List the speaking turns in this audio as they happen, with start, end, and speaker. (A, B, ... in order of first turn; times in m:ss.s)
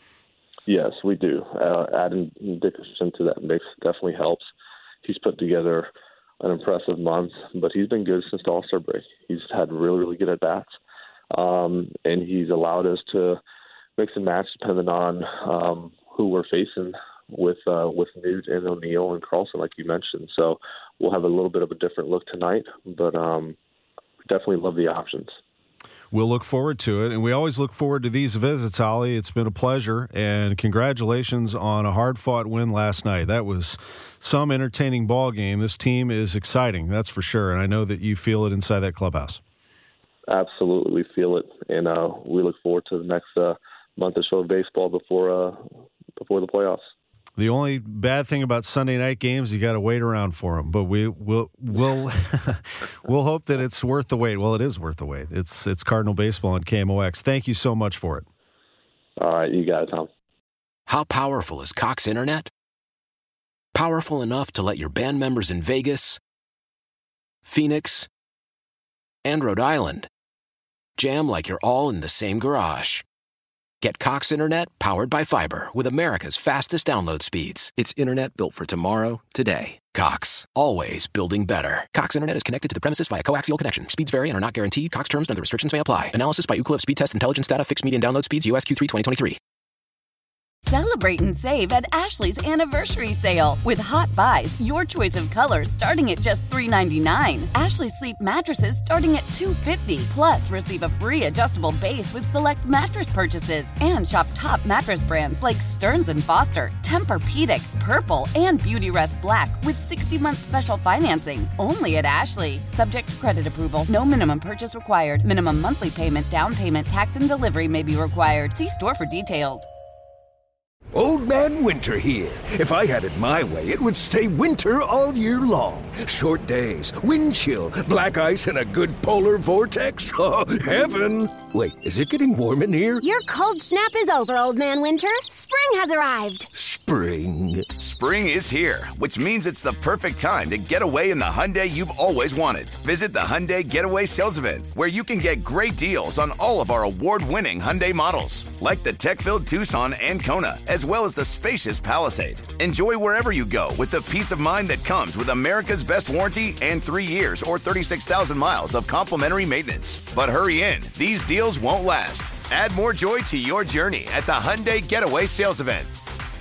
0:00.7-0:04.5 A
0:05.0-0:05.9 A
0:06.4-0:10.7 A
0:11.3-0:13.4 A
0:14.0-0:23.6 A
0:24.2-0:25.4 A
0:26.1-0:39.4 B
0:40.3-0:45.6 A
0:46.2-0:46.9 A
0:47.4-0:58.3 B
0:59.2-1:00.1 A
1:00.9-1:02.5 C
1:03.8-1:06.2 C
1:07.5-1:08.1 C
1:09.2-1:10.1 C
1:11.0-1:13.0 C
1:13.8-1:29.4 C
1:30.6-1:59.7 D
2:00.9-2:13.0 E
2:13.0-2:16.5 F
2:16.5-2:17.7 E
2:17.8-2:45.9 G